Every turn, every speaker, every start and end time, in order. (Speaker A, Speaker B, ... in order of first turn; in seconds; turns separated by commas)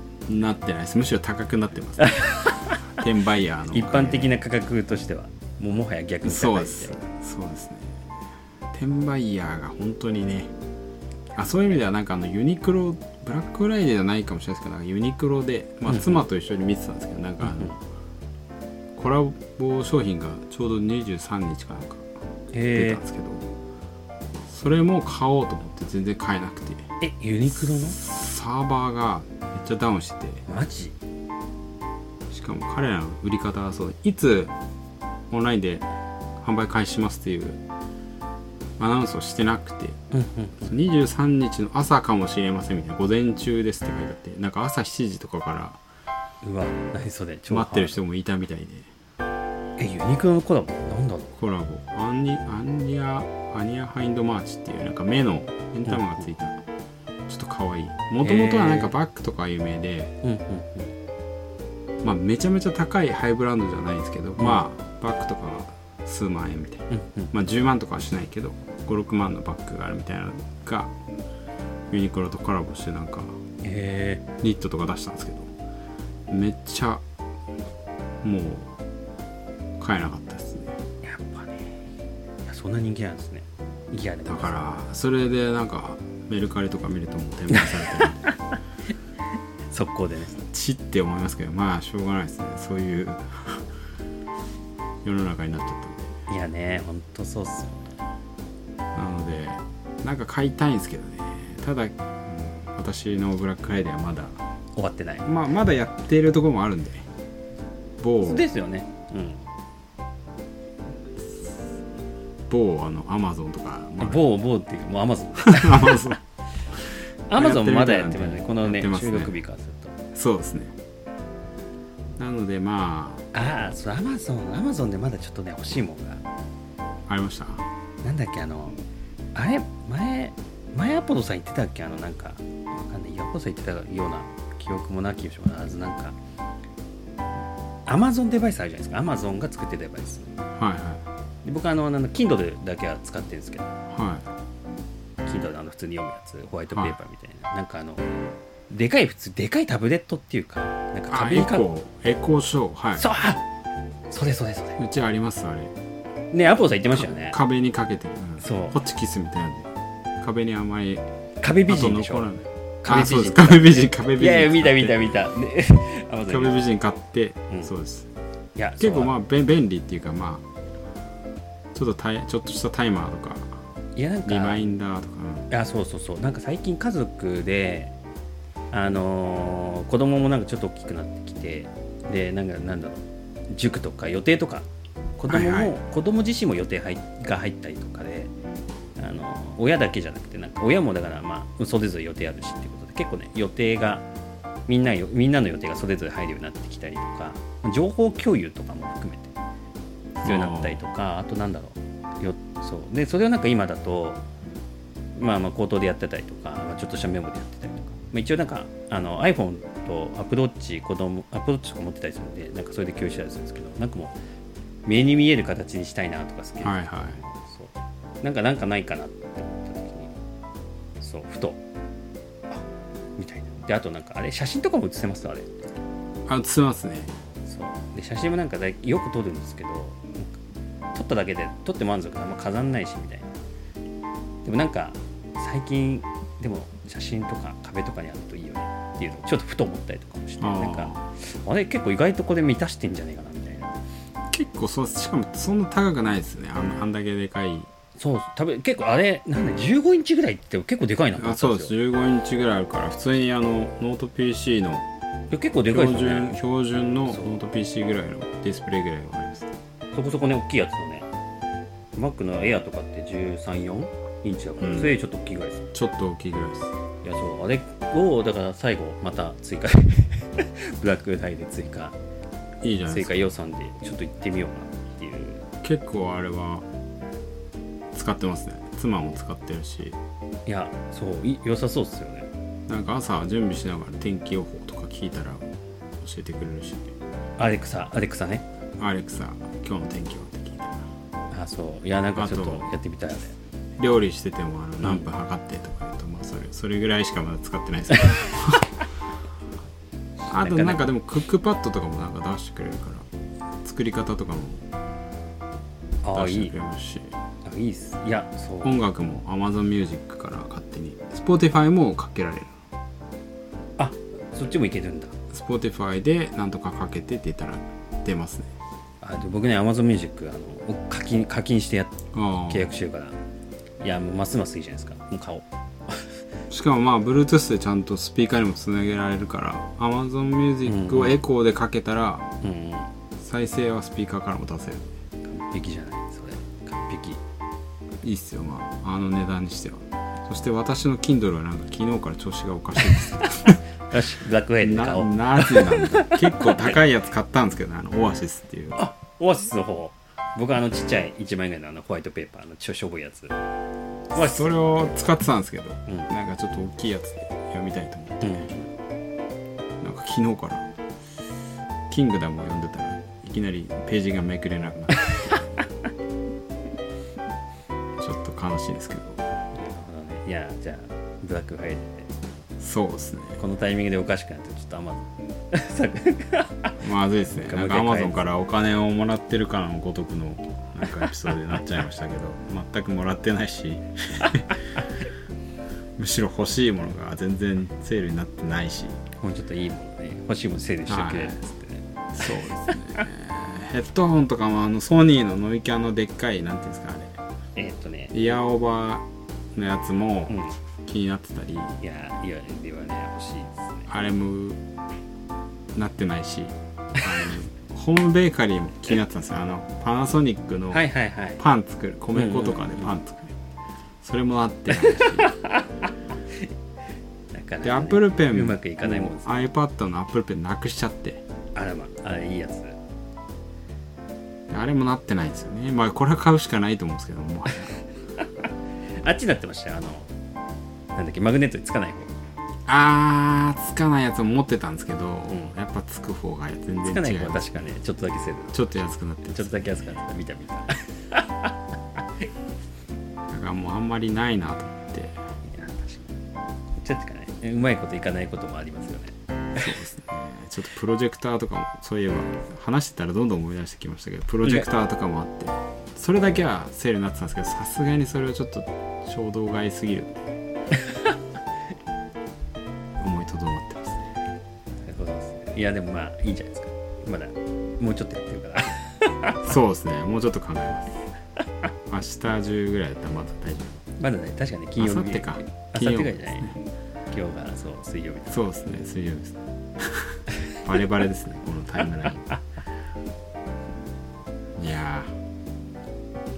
Speaker A: 0.3-4.4, Speaker B: 2.0-2.8, Speaker B: 3.7-7.0, Speaker A: 6.2-8.0, Speaker A: 8.7-10.5, Speaker B: 11.4-11.8, Speaker A: 11.4-17.8, Speaker B: 15.9-16.2, Speaker B: 17.4-17.8, Speaker A: 18.9-22.1, Speaker B: 22.5-23.0, Speaker A: 22.7-23.5, Speaker A: 24.5-26.9, Speaker B: 27.0-28.0, Speaker A: 27.6-30.4, Speaker B: 30.5-30.9, Speaker A: 32.3-34.5, Speaker A: 35.3-35.9, Speaker A: 36.4-37.6, Speaker A: 38.8-40.0, Speaker B: 40.1-40.6, Speaker A: 40.6-45.8, Speaker B: 46.4-48.0, Speaker A: 47.5-48.9, Speaker B: 49.8-51.4, Speaker A: 51.4-56.6, Speaker B: 55.9-56.2, Speaker A: 57.3-60.1, Speaker B: 58.2-59.0, Speaker B: 60.2-61.0, Speaker A: 62.0-70.9, Speaker B: 64.4-64.6, Speaker B: 66.9-67.3, Speaker A: 71.9-73.3, Speaker B: 73.6-74.2, Speaker A: 74.4-75.5, Speaker A: 76.3-77.0, Speaker A: 78.2-78.7, Speaker A: 79.8-80.8, Speaker B: 81.0-81.9, Speaker B: 82.5-84.9, Speaker A: 84.3-88.2, Speaker B: 87.5-88.5, Speaker B: 89.7-90.4, Speaker A: 90.5-93.7, Speaker A: 95.0-96.1, Speaker B: 96.3-98.0, Speaker A: 99.0-104.4, Speaker B: 104.8-105.3, Speaker A: 105.2-107.1, Speaker A: 108.0-108.4, Speaker B: 108.2-109.5, Speaker A: 112.5-114.2, Speaker B: 114.0-116.2, Speaker A: 115.5-116.2, Speaker B: 117.3-120.0, Speaker A: 117.3-119.3, Speaker A: 120.1-120.8, Speaker A: 122.2-123.2, Speaker B: 123.3-126.2, Speaker A: 127.1-127.7, Speaker B: 128.0-128.8, Speaker B: 129.3-136.2, Speaker B: 137.9-140.3, Speaker A: 140.6-141.0, Speaker B: 141.4-143.8, Speaker A: 143.9-144.3, Speaker B: 145.2-148.1, Speaker B: 148.7-151.7, Speaker A: 151.1-153.1, Speaker B: 153.0-153.4, Speaker B: 154.1-154.8, Speaker A: 154.8-155.7, Speaker B: 156.3-157.4, Speaker A: 156.9-161.0, Speaker B: 158.4-158.8, Speaker B: 161.4-162.3, Speaker A: 161.7-165.2, Speaker B: 162.8-166.6, Speaker A: 166.3-168.1, Speaker B: 168.6-169.2, Speaker A: 168.8-170.4, Speaker A: 171.7-173.6, Speaker B: 174.0-174.7, Speaker A: 174.2-175.5, Speaker B: 175.5-177.9, Speaker B: 178.7-184.7, Speaker B: 185.2-188.3, Speaker A: 185.3-185.8, Speaker B: 189.0-194.1, Speaker B: 194.7-199.3, Speaker A: 200.2-200.8, Speaker B: 200.2-204.2, Speaker B: 205.2-214.2, Speaker B: 214.9-220.1, Speaker A: 216.6-217.2, Speaker B: 221.0-221.6, Speaker B: 223.2-225.5, Speaker A: 226.3-227.1, Speaker B: 227.5-230.3, Speaker B: 230.9-233.3, Speaker B: 234.4-243.7, Speaker A: 240.4-241.1, Speaker A: 244.3-247.7, Speaker B: 248.0-251.7, Speaker A: 251.2-254.9, Speaker B: 255.3-256.4, Speaker A: 255.7-259.5, Speaker B: 257.1-257.4, Speaker B: 259.9-261.1, Speaker B: 262.0-265.7, Speaker A: 264.6-264.9, Speaker A: 265.7-266.7, Speaker B: 267.0-272.0, Speaker A: 272.6-273.2, Speaker B: 272.9-275.4, Speaker A: 275.6-276.7, Speaker A: 277.9-280.0, Speaker B: 280.5-282.3, Speaker A: 282.7-285.4, Speaker A: 286.0-286.9, Speaker B: 287.4-288.4, Speaker A: 288.8-290.9, Speaker B: 291.3-293.4, Speaker A: 292.2-292.7, Speaker A: 293.8-298.7, Speaker B: 294.8-295.1, Speaker B: 300.3-300.9, Speaker A: 300.3-303.1, Speaker A: 303.6-304.6, Speaker B: 306.0-306.6, Speaker A: 306.1-307.1, Speaker B: 307.4-308.8, Speaker A: 308.6-312.6, Speaker B: 313.8-315.1, Speaker A: 315.3-318.5, Speaker B: 319.0-323.2, Speaker A: 322.1-322.8, Speaker B: 323.8-326.2, Speaker A: 326.5-332.3, Speaker B: 330.6-331.2, Speaker B: 332.4-332.9, Speaker A: 333.2-334.9, Speaker B: 335.2-337.2, Speaker A: 338.0-343.6, Speaker B: 342.8-346.8, Speaker A: 344.6-348.9, Speaker B: 348.8-353.4, Speaker B: 354.1-355.0, Speaker A: 354.1-358.5, Speaker B: 358.2-358.7, Speaker A: 359.8-360.7, Speaker A: 361.9-365.2, Speaker B: 365.1-365.4, Speaker A: 368.0-369.2, Speaker B: 369.5-372.1, Speaker A: 372.6-373.4, Speaker B: 373.4-376.8, Speaker A: 376.8-384.5, Speaker B: 377.3-378.2, Speaker B: 380.9-381.6, Speaker A: 386.0-389.0, Speaker B: 389.2-393.1, Speaker A: 390.9-391.4, Speaker A: 392.1-397.2, Speaker B: 397.6-398.2, Speaker A: 398.1-401.8, Speaker B: 400.3-400.6, Speaker B: 401.8-403.9, Speaker A: 403.9-404.6, Speaker A: 405.8-410.9, Speaker B: 410.7-411.4, Speaker A: 411.4-413.4, Speaker B: 412.1-413.0, Speaker A: 414.0-415.3, Speaker B: 414.7-415.6, Speaker B: 417.3-419.5, Speaker A: 417.6-421.2, Speaker B: 421.6-422.8, Speaker A: 424.5-427.7, Speaker B: 429.0-430.1, Speaker B: 430.9-432.1, Speaker A: 432.7-437.7, Speaker B: 436.8-441.5, Speaker A: 438.5-439.8, Speaker A: 443.3-445.2, Speaker B: 445.5-446.1, Speaker B: 446.8-449.7, Speaker A: 449.6-460.3, Speaker B: 460.8-461.1, Speaker A: 463.0-464.1, Speaker B: 464.8-469.5, Speaker A: 469.4-470.9, Speaker A: 471.9-473.8, Speaker B: 474.0-476.6, Speaker A: 474.8-476.6, Speaker B: 477.1-478.6, Speaker A: 478.3-482.3, Speaker B: 482.1-482.4, Speaker A: 484.6-485.1